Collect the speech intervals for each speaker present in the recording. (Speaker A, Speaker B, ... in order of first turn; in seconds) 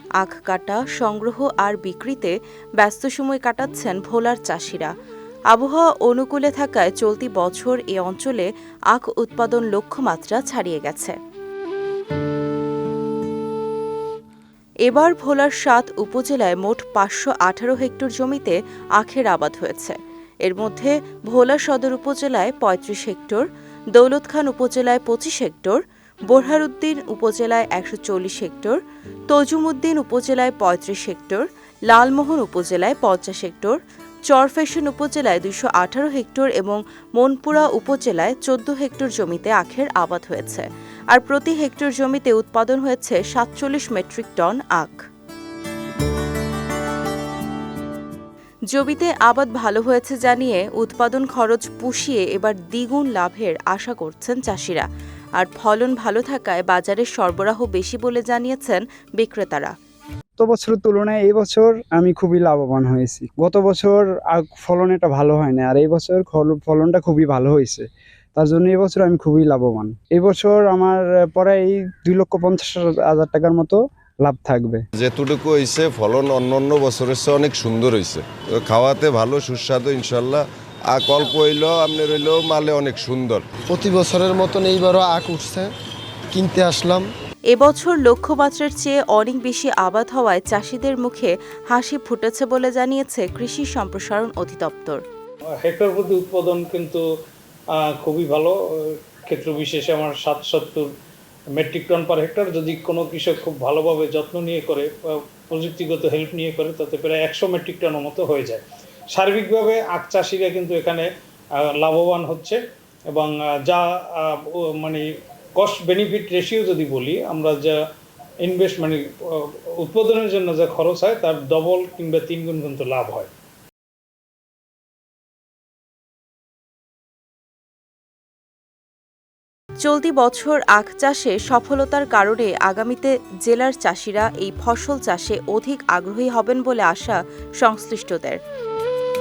Speaker A: 0.2-4.9, 5.5-11.2, 14.8-33.8, 34.3-45.0, 48.7-59.7, 87.5-95.0, 129.8-138.4
Speaker B: 60.4-67.8, 68.3-74.8
Speaker C: 75.0-83.5
Speaker D: 83.7-85.7, 86.3-87.1
Speaker E: 95.6-97.0, 97.8-100.9, 101.6-104.9, 105.5-111.0, 111.6-112.6, 113.1-115.0, 115.6-117.8, 118.4-123.3